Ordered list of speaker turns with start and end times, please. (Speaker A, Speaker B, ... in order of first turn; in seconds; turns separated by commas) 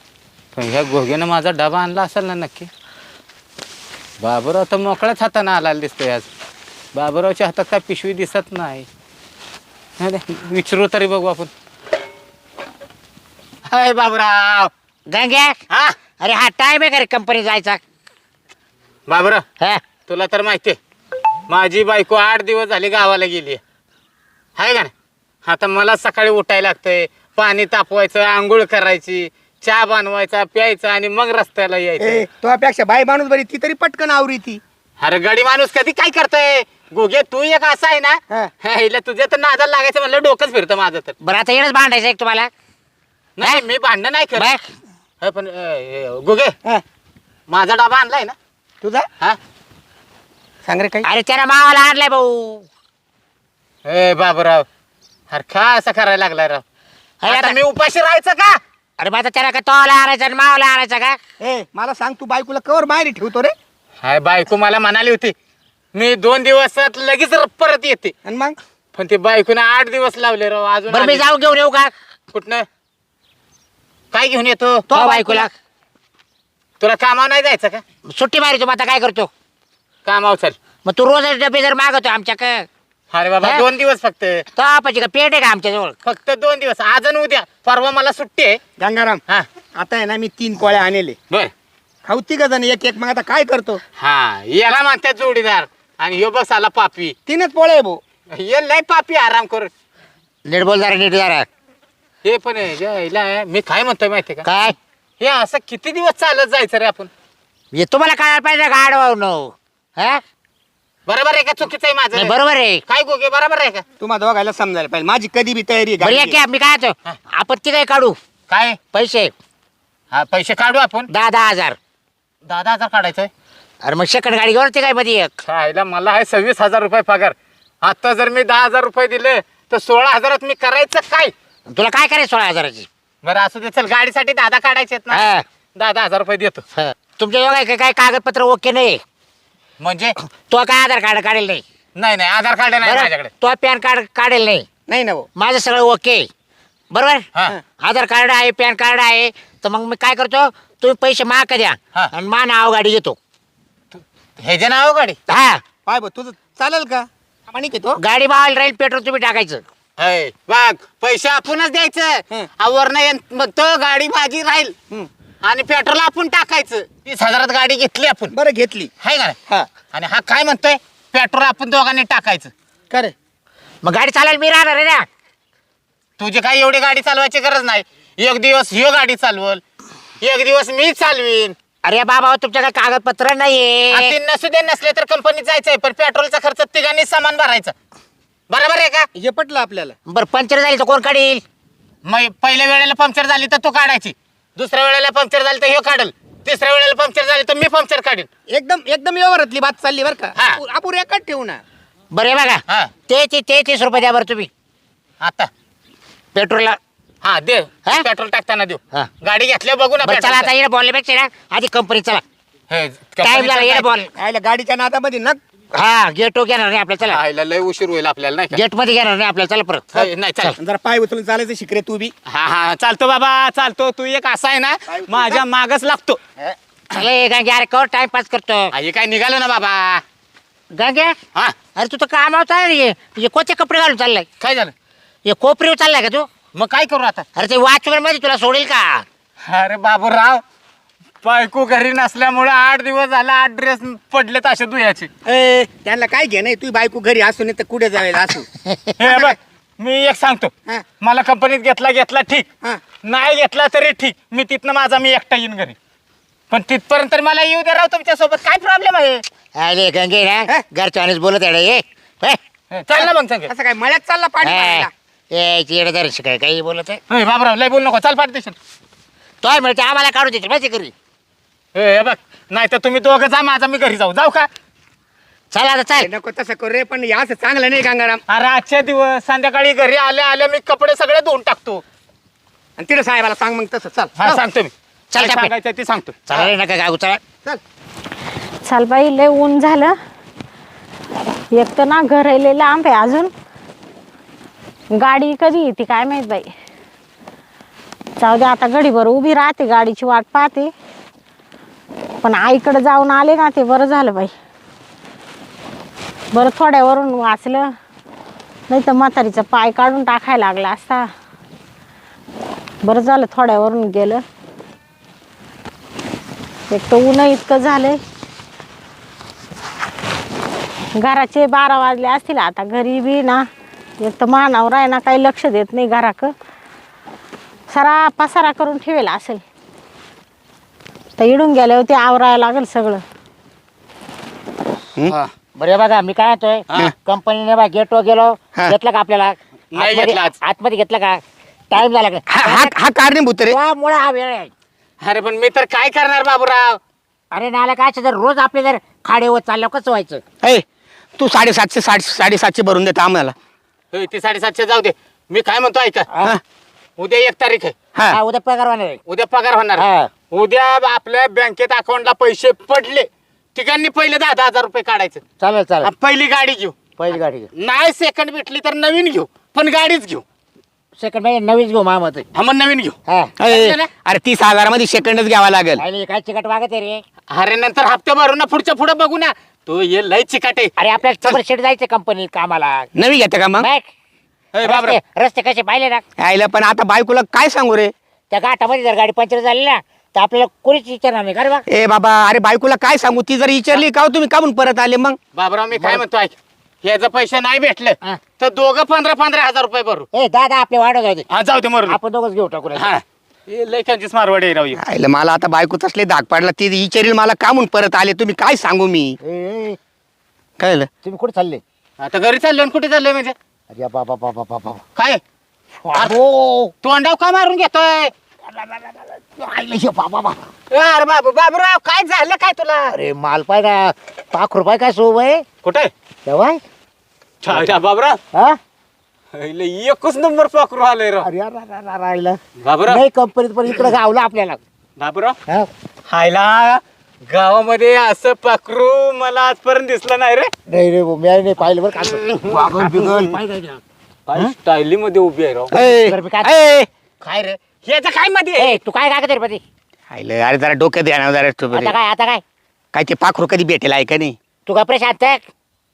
Speaker A: 0.5-2.7, Speaker A: 4.2-6.3, Speaker A: 6.9-8.8, Speaker A: 10.0-11.5, Speaker A: 13.7-14.7, Speaker B: 15.1-15.6, Speaker A: 15.7-15.9, Speaker B: 16.2-17.8, Speaker A: 19.1-19.4, Speaker A: 20.1-20.8, Speaker A: 21.5-23.6, Speaker A: 24.6-24.9, Speaker A: 25.4-32.2, Speaker C: 32.0-34.6, Speaker A: 35.0-41.1, Speaker B: 41.2-42.5, Speaker A: 43.4-44.5, Speaker B: 44.4-44.6, Speaker A: 45.2-46.5, Speaker A: 47.5-48.3, Speaker C: 48.8-49.1, Speaker C: 50.6-51.1, Speaker B: 51.0-52.7, Speaker A: 53.8-54.6, Speaker A: 55.3-56.6, Speaker B: 57.2-57.6, Speaker A: 57.2-58.6, Speaker B: 59.0-61.2, Speaker C: 61.4-63.5, Speaker A: 64.0-65.3, Speaker A: 65.9-68.1, Speaker C: 68.2-68.6, Speaker A: 68.9-71.2, Speaker B: 70.9-71.9, Speaker A: 72.3-72.7, Speaker A: 74.1-74.8, Speaker C: 74.9-75.5, Speaker B: 74.9-75.5, Speaker A: 76.8-77.8, Speaker B: 78.1-79.3, Speaker A: 80.0-80.5, Speaker B: 80.8-82.7, Speaker A: 83.1-84.5, Speaker B: 84.5-85.9, Speaker A: 86.0-88.6, Speaker C: 88.8-89.2, Speaker C: 89.7-91.2, Speaker C: 92.0-93.8, Speaker A: 94.0-97.2, Speaker C: 97.2-98.0, Speaker A: 98.3-99.7, Speaker B: 100.5-101.5, Speaker A: 102.2-104.5, Speaker B: 104.4-104.8, Speaker A: 105.2-107.1, Speaker B: 107.7-110.2, Speaker A: 111.1-112.3, Speaker B: 112.1-112.8, Speaker A: 112.9-113.8, Speaker C: 114.0-116.4, Speaker B: 116.0-118.2, Speaker A: 118.5-118.8, Speaker B: 118.9-119.3, Speaker A: 120.1-121.1, Speaker B: 121.1-121.8, Speaker A: 122.5-123.3, Speaker B: 123.8-125.3, Speaker A: 125.5-131.3, Speaker B: 131.7-132.9, Speaker A: 133.2-136.6, Speaker B: 135.1-135.4, Speaker B: 136.7-139.0, Speaker A: 139.8-140.2, Speaker B: 140.2-141.6, Speaker A: 141.9-143.3, Speaker B: 142.8-144.7, Speaker C: 144.9-145.3, Speaker B: 145.3-146.3, Speaker B: 146.9-147.2, Speaker B: 147.8-153.2, Speaker A: 153.9-155.2, Speaker B: 155.3-155.6, Speaker C: 155.8-158.0, Speaker B: 158.0-159.6, Speaker A: 160.0-164.7, Speaker A: 165.4-168.3, Speaker C: 168.3-168.9, Speaker A: 169.0-169.4, Speaker A: 169.9-172.5, Speaker B: 173.8-175.1, Speaker A: 176.2-179.6, Speaker A: 180.2-181.6, Speaker B: 181.8-184.2, Speaker A: 183.9-187.7, Speaker A: 188.5-189.1, Speaker C: 189.1-189.9, Speaker B: 190.1-191.4, Speaker A: 192.0-198.3, Speaker C: 198.5-201.6, Speaker A: 200.3-200.6, Speaker B: 202.1-204.5, Speaker A: 205.2-205.5, Speaker B: 206.3-206.8, Speaker A: 207.2-210.5, Speaker B: 210.0-212.2, Speaker A: 212.7-213.9, Speaker B: 213.2-214.1, Speaker C: 214.2-215.4, Speaker B: 215.7-217.2, Speaker A: 217.0-218.6, Speaker B: 218.5-220.5, Speaker A: 219.9-220.5, Speaker C: 220.6-222.1, Speaker A: 222.3-226.2, Speaker C: 224.9-225.4, Speaker B: 226.9-228.7, Speaker A: 228.7-230.0, Speaker B: 230.7-231.2, Speaker B: 231.7-234.3, Speaker A: 234.4-234.7, Speaker B: 235.2-236.3, Speaker A: 236.5-237.2, Speaker B: 237.3-239.0, Speaker A: 239.4-240.4, Speaker A: 241.2-245.1, Speaker C: 245.2-248.5, Speaker B: 248.6-248.9, Speaker A: 249.0-252.5, Speaker A: 253.0-255.8, Speaker A: 256.5-259.2, Speaker B: 259.6-262.4, Speaker A: 262.7-263.5, Speaker C: 263.0-264.9, Speaker B: 264.4-267.0, Speaker A: 267.1-268.6, Speaker B: 269.4-270.9, Speaker A: 271.7-274.5, Speaker B: 275.5-276.1, Speaker C: 276.0-278.2, Speaker A: 278.3-281.8, Speaker C: 282.8-284.4, Speaker A: 284.2-286.2, Speaker B: 285.1-285.5, Speaker B: 286.3-287.2, Speaker D: 288.6-290.0, Speaker D: 291.5-293.3, Speaker D: 294.9-296.5, Speaker D: 298.2-300.7, Speaker D: 302.2-304.3, Speaker D: 306.3-307.7, Speaker D: 308.7-311.1, Speaker D: 312.8-314.2, Speaker D: 316.7-318.0, Speaker D: 320.9-323.4, Speaker D: 324.0-326.3, Speaker D: 327.7-329.4, Speaker D: 331.2-333.0, Speaker B: 335.6-342.7, Speaker A: 339.7-340.4, Speaker C: 342.3-343.6, Speaker B: 343.5-344.5, Speaker A: 345.0-346.8, Speaker B: 347.3-350.2, Speaker C: 351.2-353.3, Speaker A: 353.9-356.1, Speaker B: 356.1-356.4, Speaker A: 357.0-357.7, Speaker B: 358.1-359.0, Speaker A: 359.1-365.2, Speaker B: 359.8-360.1, Speaker B: 365.4-365.9, Speaker A: 365.8-366.8, Speaker B: 367.0-367.5, Speaker A: 367.6-370.2, Speaker B: 371.0-372.2, Speaker A: 372.3-373.9, Speaker B: 373.1-373.3, Speaker C: 373.4-375.8, Speaker B: 375.8-377.0, Speaker A: 377.3-380.7, Speaker B: 380.8-382.9, Speaker C: 382.9-383.7, Speaker B: 383.6-383.9, Speaker A: 384.5-385.0, Speaker B: 384.6-386.0, Speaker C: 386.2-387.9, Speaker B: 388.3-391.6, Speaker C: 391.7-395.2, Speaker A: 395.3-400.1, Speaker B: 395.8-396.0, Speaker B: 400.1-401.2, Speaker A: 401.3-402.0, Speaker B: 401.9-402.9, Speaker A: 402.7-404.8, Speaker C: 404.8-409.2, Speaker B: 409.2-409.8, Speaker C: 410.6-410.9, Speaker B: 411.0-411.6, Speaker A: 412.0-413.3, Speaker B: 413.7-414.8, Speaker B: 415.8-416.7, Speaker A: 416.8-418.1, Speaker B: 418.5-420.4, Speaker A: 420.7-422.9, Speaker B: 422.9-425.4, Speaker A: 425.6-425.9, Speaker B: 426.2-426.6, Speaker A: 427.4-428.2, Speaker B: 427.5-427.8, Speaker B: 428.3-428.6, Speaker A: 429.3-431.3, Speaker B: 431.2-434.6, Speaker A: 432.6-433.0, Speaker A: 435.0-435.4, Speaker A: 436.1-440.5, Speaker B: 440.7-443.8, Speaker A: 442.5-443.4, Speaker A: 444.3-445.7, Speaker C: 445.7-446.9, Speaker B: 445.8-446.5, Speaker A: 447.2-448.8, Speaker B: 448.6-449.6, Speaker C: 450.1-451.9, Speaker B: 451.7-452.4, Speaker C: 452.9-454.4, Speaker B: 454.6-455.4